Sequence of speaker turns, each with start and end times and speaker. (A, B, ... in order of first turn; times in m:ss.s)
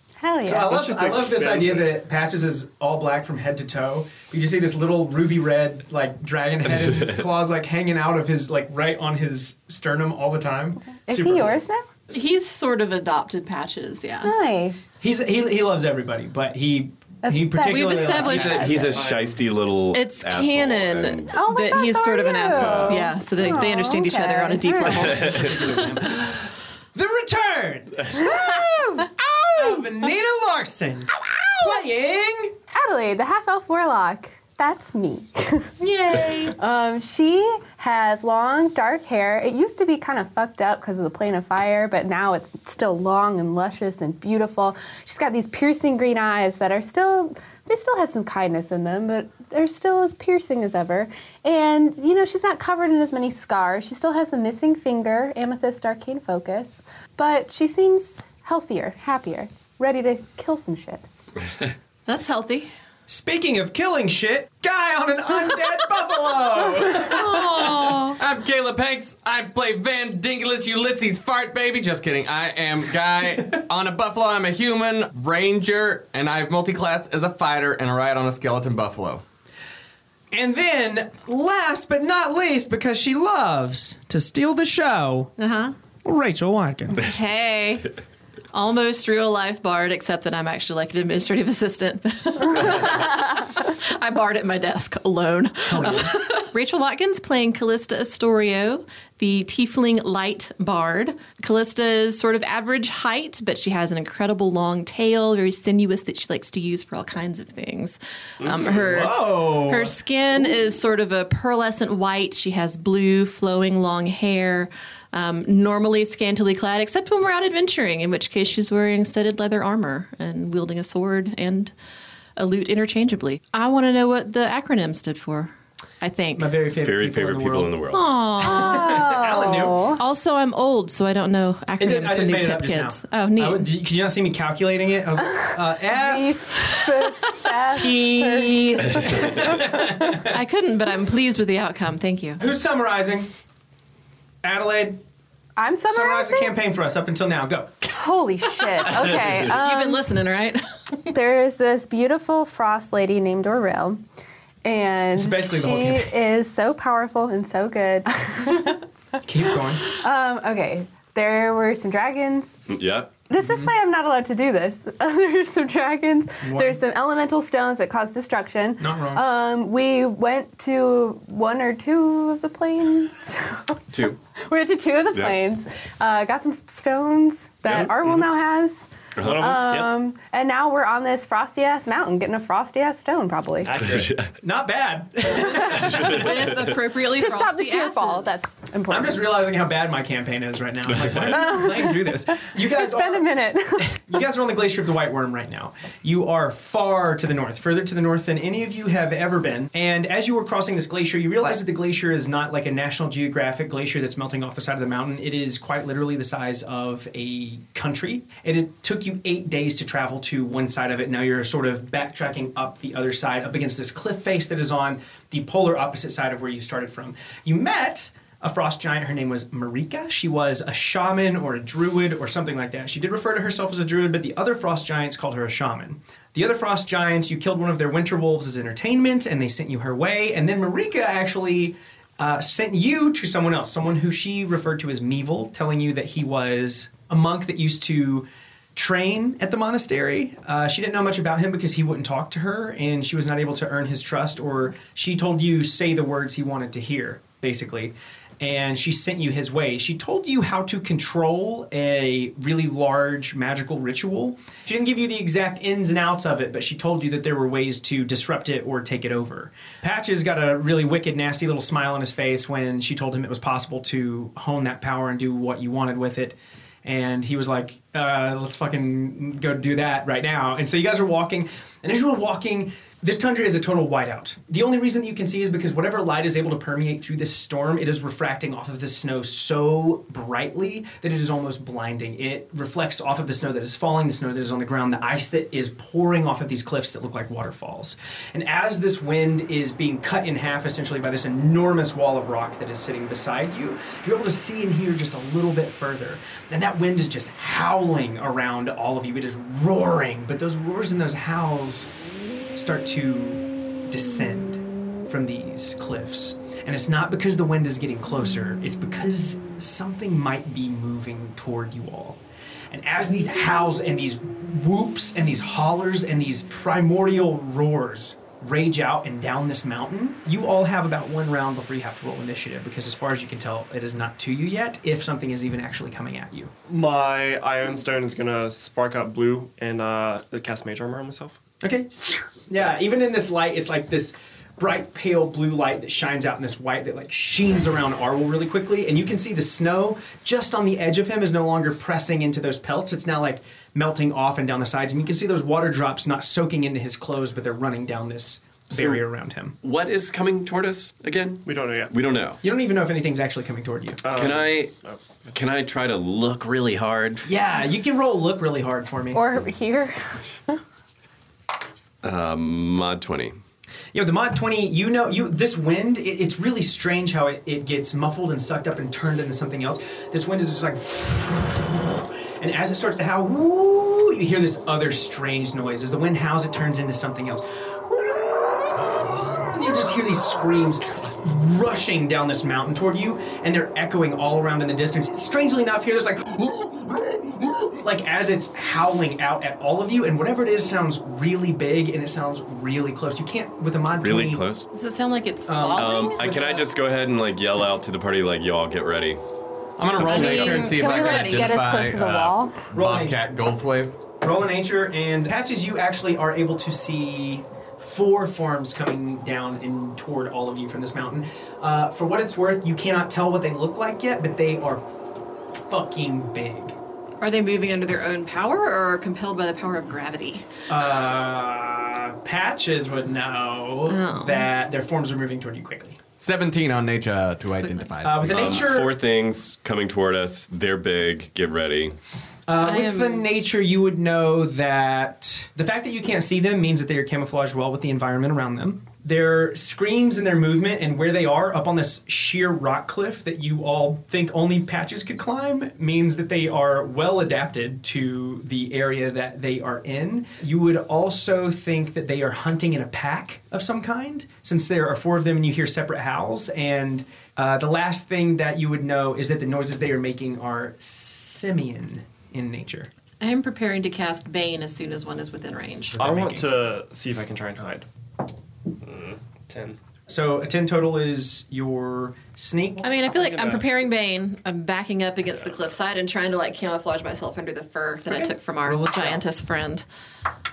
0:00.2-0:01.3 A
0:00.4-0:11.6 B
0:00.7-0:01.9 C
0:06.9-0:07.2 D
0:11.0-0:11.9 A
0:12.1-0:14.3 E
0:14.2-0:14.9 A
0:15.0-0:18.8 B
0:17.2-0:19.0 A
0:17.7-0:18.6 E
0:18.2-0:21.4 D
0:18.8-0:19.4 C
0:19.9-0:26.0 E
0:21.3-0:25.5 A
0:22.5-0:23.1 D
0:24.8-0:32.6 B
0:28.1-0:29.8 A
0:31.3-0:31.8 A
0:32.7-0:35.7 A
0:35.8-0:36.6 E
0:36.5-1:01.0 A
1:02.1-1:02.7 E
1:03.1-1:07.9 B
1:06.9-1:08.2 E
1:08.2-1:19.2 F
1:20.3-1:25.3 B
1:25.4-1:25.7 E
1:26.0-1:27.1 B
1:26.9-1:27.9 E
1:28.5-2:01.7 E
1:35.7-1:36.2 B
1:48.5-1:50.0 B
2:02.4-2:06.5 E
2:06.4-2:07.7 B
2:06.8-2:08.0 D
2:07.9-2:09.1 E
2:08.4-2:10.0 A
2:08.5-2:09.9 B
2:10.0-2:13.7 E
2:11.8-2:20.4 B
2:15.9-2:20.2 A
2:20.2-2:22.4 E
2:22.4-2:23.3 B
2:24.4-2:25.0 B
2:25.6-2:26.5 A
2:25.9-2:27.9 B
2:27.8-2:30.0 A
2:29.4-2:31.0 E
2:31.1-2:34.0 A
2:34.6-2:38.8 A
2:35.2-2:36.1 B
2:39.2-2:39.9 B
2:39.8-2:42.5 A
2:42.7-2:43.1 D
2:43.3-2:53.8 A
2:43.4-2:43.7 B
2:46.4-2:46.8 B
2:48.8-2:49.2 B
2:53.9-2:54.2 D
2:54.4-3:03.8 A
2:55.1-2:55.4 D
2:59.2-2:59.6 D
2:59.2-2:59.9 C
3:03.6-3:04.1 C
3:03.8-3:04.3 D
3:04.4-3:06.3 B
3:05.7-3:06.7 D
3:05.9-3:08.4 E
3:07.0-3:09.3 A
3:08.9-5:01.9 B
3:11.2-3:14.0 A
5:02.6-5:12.2 B
5:12.7-5:26.5 B
5:26.7-5:31.4 C
5:31.6-5:49.6 B
5:48.7-5:49.0 D
5:49.6-5:52.4 D
5:51.4-5:51.9 C
5:52.4-5:54.0 B
5:54.0-5:55.3 C
5:54.1-5:54.7 D
5:55.3-5:57.3 D
5:57.2-5:59.2 B
5:59.1-6:00.6 A
6:02.0-6:03.4 D
6:03.9-6:26.7 B
6:27.7-6:34.4 B
6:34.0-6:34.7 D
6:34.7-6:36.2 E
6:35.5-6:36.7 B
6:35.7-6:39.2 D
6:39.8-6:44.0 F
6:40.0-6:40.6 B
6:40.0-6:41.5 E
6:40.0-6:42.6 A
6:42.7-6:43.2 B
6:44.2-6:54.8 B
6:55.7-6:56.7 B
6:57.2-7:00.4 E
7:00.7-7:06.0 B
7:03.9-7:04.4 E
7:06.2-7:08.6 F
7:07.5-7:08.0 E
7:08.0-7:08.9 B
7:08.2-7:12.0 D
7:12.5-7:42.9 B
7:12.6-7:13.2 E
7:43.2-7:46.0 E
7:46.0-7:47.9 C
7:46.0-7:46.4 B
7:48.8-7:49.8 C
7:50.1-7:53.0 B
7:52.8-7:59.8 E
7:53.0-7:53.6 C
7:58.1-7:59.2 B